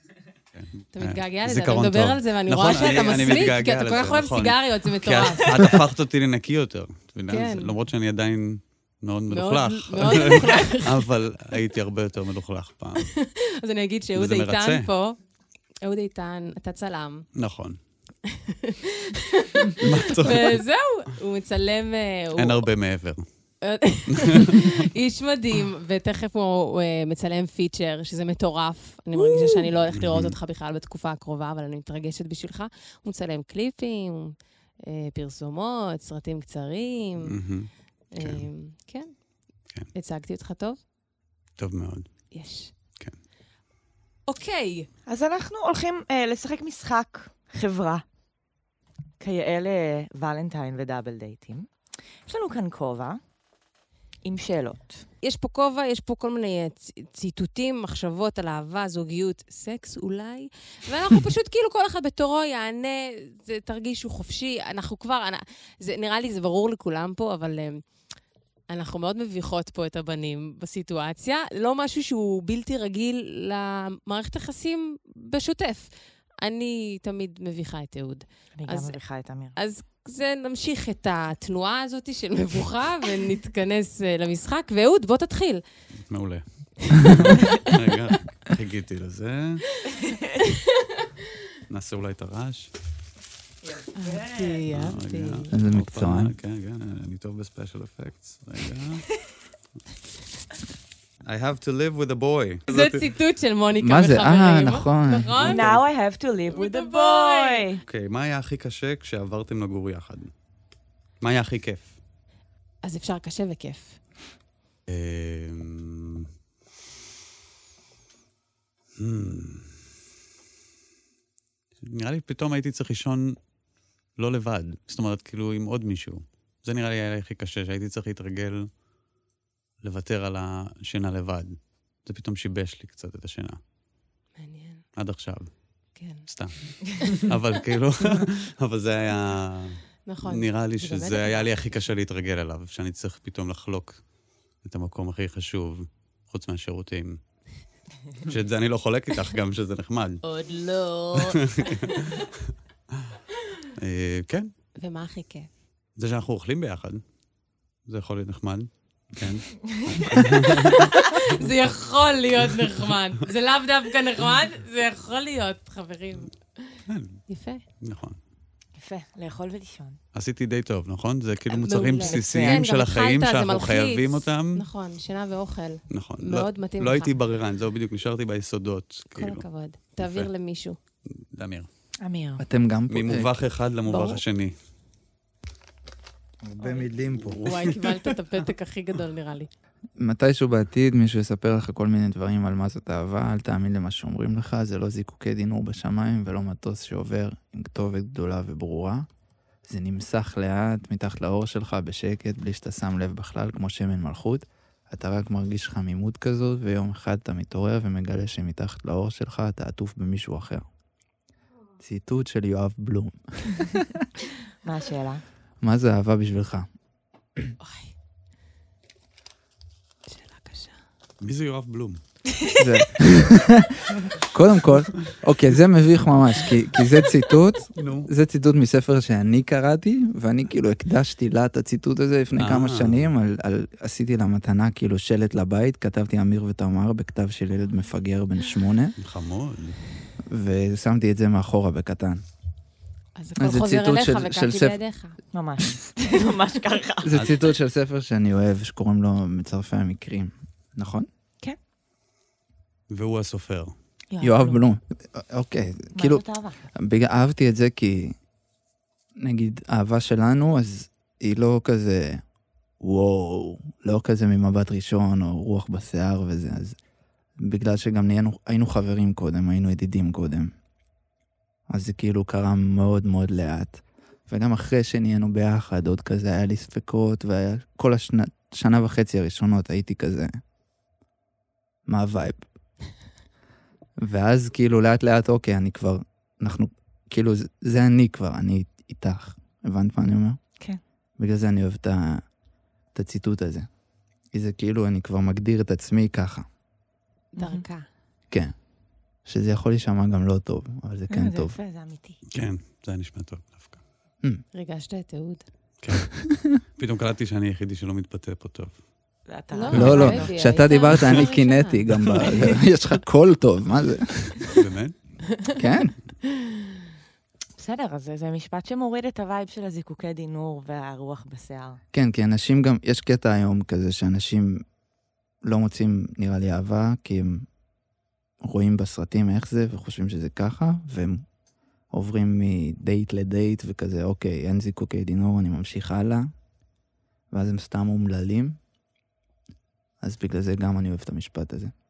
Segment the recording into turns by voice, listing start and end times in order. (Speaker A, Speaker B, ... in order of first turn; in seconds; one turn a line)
Speaker A: 0.5-13.1
Speaker B: 0.9-5.8
Speaker B: 7.3-7.7
Speaker B: 9.3-11.1
Speaker B: 13.0-15.2
Speaker A: 14.2-14.9
Speaker B: 15.8-17.3
Speaker A: 17.4-17.8
Speaker B: 18.2-22.7
Speaker A: 19.8-20.6
Speaker A: 22.4-23.2
Speaker B: 23.6-37.4
Speaker A: 24.1-24.9
Speaker A: 29.2-30.4
Speaker A: 37.2-38.5
Speaker B: 38.1-39.1
Speaker B: 39.9-40.8
Speaker A: 41.6-42.1
Speaker B: 42.3-42.7
Speaker B: 44.3-44.9
Speaker C: 45.1-48.0
Speaker C: 49.2-51.7
Speaker C: 52.3-53.2
Speaker C: 54.2-55.0
Speaker B: 55.2-67.8
Speaker B: 68.7-75.9
Speaker B: 76.4-79.0
Speaker C: 78.6-79.5
Speaker B: 79.5-85.6
Speaker A: 86.1-89.7
Speaker B: 87.0-87.7
Speaker A: 91.7-92.7
Speaker C: 93.6-94.7
Speaker B: 94.0-95.5
Speaker A: 94.7-99.2
Speaker D: 95.5-96.3
Speaker A: 101.2-103.1
Speaker B: 102.7-105.7
Speaker D: 103.8-105.3
Speaker A: 105.4-105.8
Speaker C: 105.4-107.8
Speaker B: 106.5-107.7
Speaker A: 107.8-110.3
Speaker A: 111.2-112.0
Speaker B: 112.8-114.0
Speaker A: 114.9-116.3
Speaker A: 119.0-119.8
Speaker A: 121.8-123.4
Speaker A: 124.2-128.7
Speaker A: 129.8-133.6
Speaker B: 134.4-134.8
Speaker A: 135.0-135.5
Speaker B: 136.0-136.2
Speaker A: 136.3-144.0
Speaker B: 140.1-141.5
Speaker A: 144.6-147.2
Speaker A: 148.2-150.2
Speaker B: 150.2-152.2
Speaker A: 151.1-152.3
Speaker A: 153.8-154.5
Speaker B: 154.8-155.5
Speaker A: 156.0-157.0
Speaker A: 157.9-161.4
Speaker C: 159.7-160.1
Speaker B: 160.1-166.8
Speaker A: 166.9-167.2
Speaker B: 167.3-167.6
Speaker A: 167.8-168.2
Speaker C: 168.8-170.0
Speaker A: 170.1-174.7
Speaker B: 171.5-177.1
Speaker C: 171.9-172.6
Speaker A: 175.9-179.4
Speaker B: 179.1-180.8
Speaker A: 180.0-180.3
Speaker A: 181.2-181.7
Speaker C: 182.0-182.4
Speaker D: 182.4-183.3
Speaker A: 182.9-184.6
Speaker B: 183.9-184.2
Speaker D: 186.4-187.8
Speaker B: 186.6-186.9
Speaker A: 187.2-187.8
Speaker B: 187.4-189.5
Speaker D: 190.0-199.1
Speaker D: 199.7-210.6
Speaker D: 211.8-214.1
Speaker C: 214.6-215.2
Speaker D: 215.6-216.7
Speaker B: 217.6-217.9
Speaker B: 220.1-220.8
Speaker A: 221.2-222.0
Speaker D: 222.6-238.9
Speaker A: 227.8-228.1
Speaker A: 232.4-233.1
Speaker A: 239.0-239.8
Speaker D: 240.3-242.2
Speaker B: 243.2-245.2
Speaker D: 243.4-244.8
Speaker C: 245.3-247.2
Speaker D: 247.0-251.1
Speaker A: 252.9-253.8
Speaker C: 254.1-254.6
Speaker D: 254.2-256.2
Speaker C: 255.9-256.6
Speaker D: 256.8-258.2
Speaker D: 259.2-262.2
Speaker D: 262.8-266.8
Speaker D: 267.4-270.6
Speaker D: 271.7-280.4
Speaker D: 281.9-282.5
Speaker D: 284.0-290.4
Speaker D: 291.2-292.2
Speaker D: 292.9-293.7
Speaker D: 294.3-296.5
Speaker B: 297.4-297.9
Speaker C: 297.4-297.6
Speaker D: 299.2-301.6
Speaker C: 301.1-302.2
Speaker A: 302.3-303.8
Speaker B: 304.5-305.4
Speaker A: 305.8-306.2
Speaker D: 306.2-306.6
Speaker A: 306.8-308.8
Speaker C: 309.3-310.6
Speaker B: 309.5-312.4
Speaker A: 309.7-310.1
Speaker D: 309.7-314.6
Speaker A: 314.4-314.9
Speaker D: 315.6-315.9
Speaker C: 317.6-321.8
Speaker D: 321.9-324.6
Speaker D: 325.4-327.5
Speaker D: 328.4-331.2
Speaker D: 331.9-336.3
Speaker D: 337.3-338.6
Speaker D: 340.0-341.7